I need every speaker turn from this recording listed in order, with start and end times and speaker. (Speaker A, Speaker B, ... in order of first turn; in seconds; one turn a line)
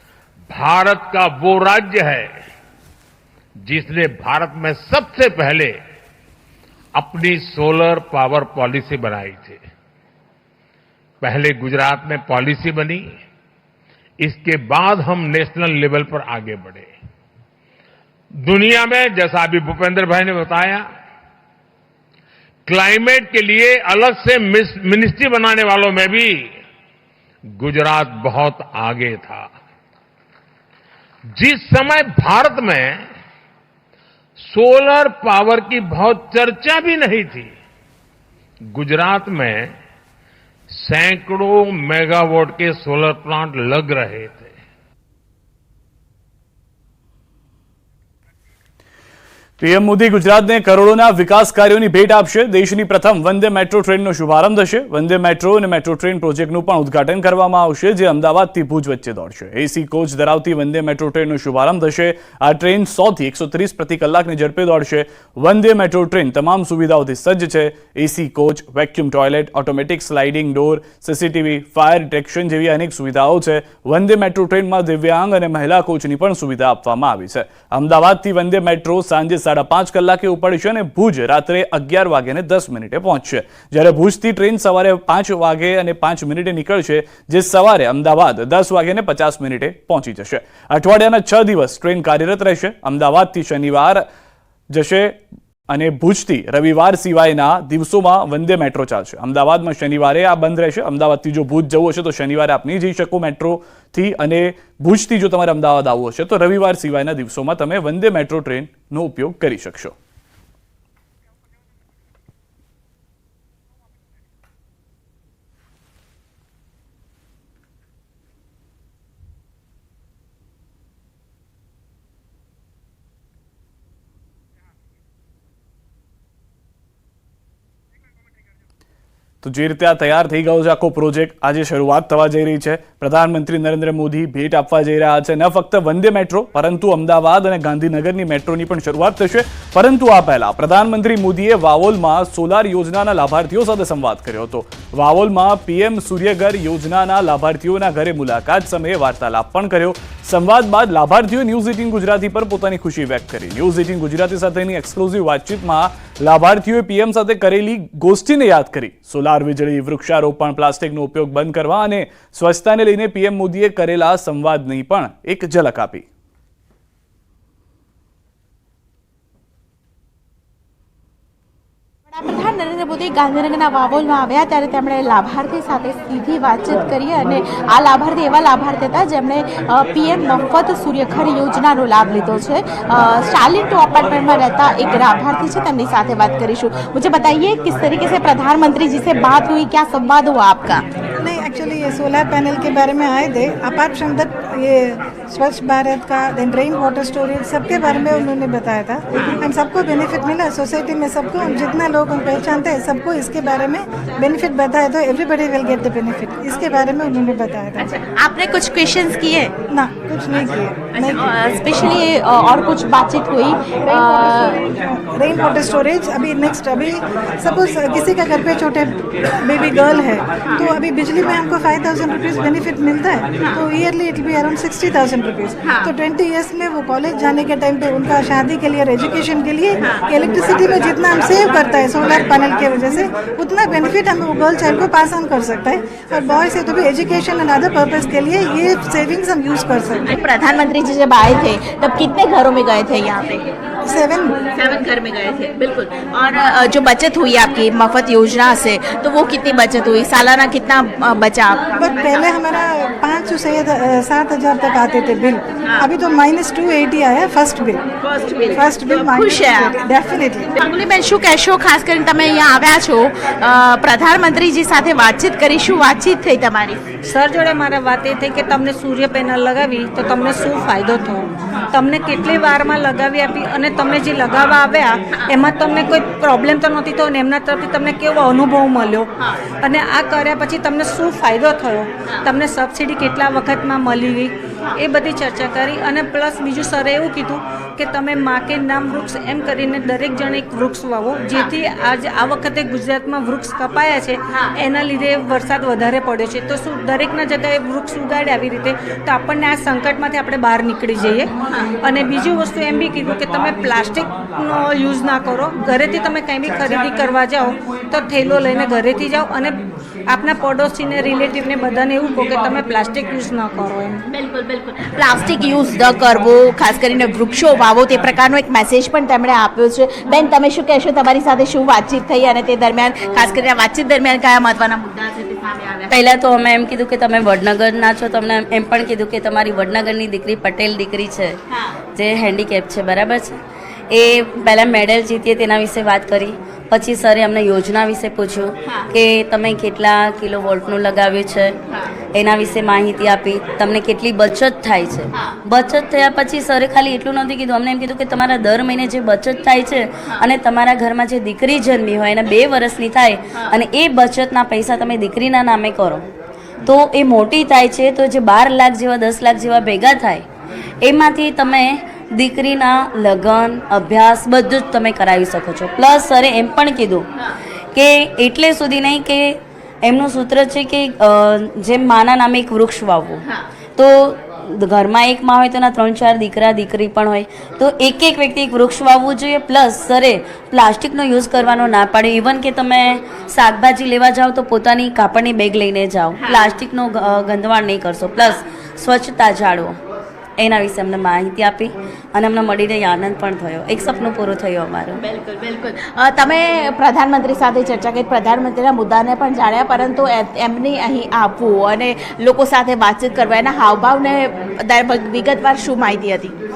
Speaker A: 0.5-2.3
Speaker A: 3.6-5.7
Speaker A: 7.0-9.6
Speaker A: 11.2-13.0
Speaker A: 14.2-16.9
Speaker A: 18.4-20.8
Speaker A: 22.7-26.5
Speaker A: 27.6-29.5
Speaker A: 31.4-33.0
Speaker A: 34.5-37.5
Speaker A: 38.7-39.7
Speaker A: 40.8-44.5
Speaker B: 49.6-94.0
Speaker B: 94.7-109.9
Speaker B: 129.4-166.1
Speaker C: 172.1-190.8
Speaker D: 191.2-207.8
Speaker C: 207.8-209.5
Speaker D: 209.7-211.1
Speaker C: 210.9-214.6
Speaker D: 213.9-240.1
Speaker C: 240.1-243.5
Speaker D: 243.8-244.4
Speaker C: 244.5-252.2
Speaker D: 251.8-257.8
Speaker C: 258.1-259.7
Speaker D: 258.6-260.5
Speaker C: 260.6-266.8
Speaker E: 267.0-279.1
Speaker E: 279.6-301.3
Speaker E: 301.8-314.0
Speaker C: 314.1-325.9
Speaker F: 323.0-323.5
Speaker F: 325.9-331.4
Speaker F: 331.9-333.4
Speaker F: 333.9-341.6
Speaker F: 342.1-356.1
Speaker F: 356.6-360.2
Speaker F: 360.8-367.1
Speaker F: 367.7-373.2
Speaker F: 373.8-389.7
Speaker F: 390.4-395.1
Speaker C: 395.0-406.3